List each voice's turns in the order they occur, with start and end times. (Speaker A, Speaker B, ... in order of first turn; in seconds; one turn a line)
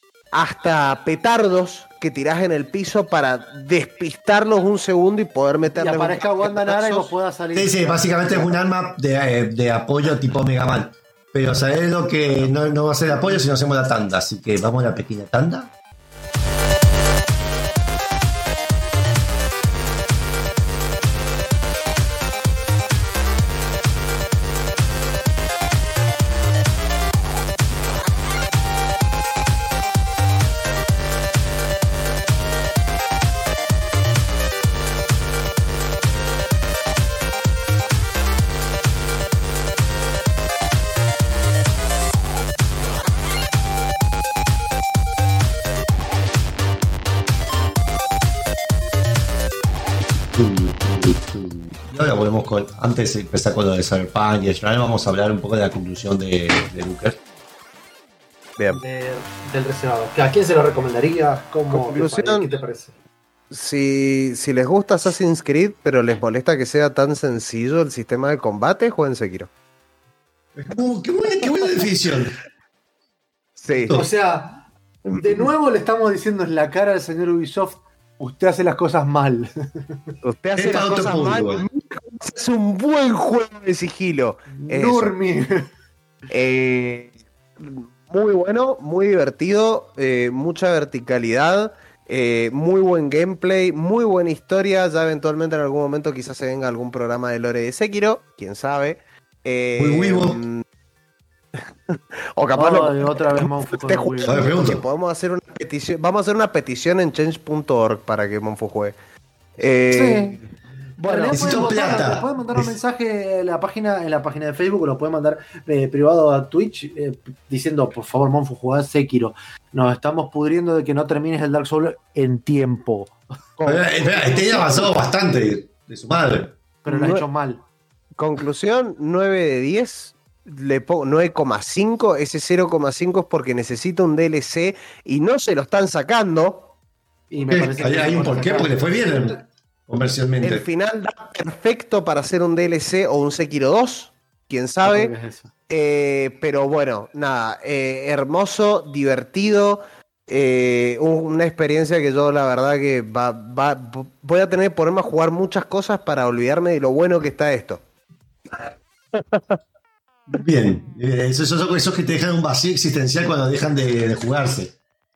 Speaker A: 0.3-7.1
Speaker B: 5.8-8.6
Speaker C: 7.5-15.7
Speaker B: 13.1-13.4
Speaker C: 50.3-57.2
Speaker B: 58.7-62.9
Speaker A: 61.7-62.5
Speaker A: 63.5-69.5
Speaker C: 70.6-72.3
Speaker A: 73.6-74.0
Speaker C: 73.8-74.1
Speaker B: 73.9-74.6
Speaker A: 75.1-75.5
Speaker B: 75.2-79.5
Speaker A: 80.2-85.1
Speaker C: 80.6-81.6
Speaker B: 84.5-85.6
Speaker A: 86.3-100.6
Speaker C: 99.8-100.4
Speaker A: 101.5-109.0
Speaker B: 102.5-104.6
Speaker C: 104.2-104.8
Speaker A: 109.6-110.4
Speaker B: 109.9-110.4
Speaker A: 111.0-111.6
Speaker B: 111.0-124.9
Speaker C: 111.3-112.7
Speaker A: 123.6-124.8
Speaker C: 123.6-126.5
Speaker B: 126.8-127.6
Speaker A: 126.9-127.2
Speaker A: 128.2-136.7
Speaker B: 137.3-139.4
Speaker C: 137.5-140.7
Speaker A: 140.4-145.1
Speaker B: 144.8-145.5
Speaker A: 145.7-157.8
Speaker A: 158.6-159.6
Speaker C: 160.3-164.7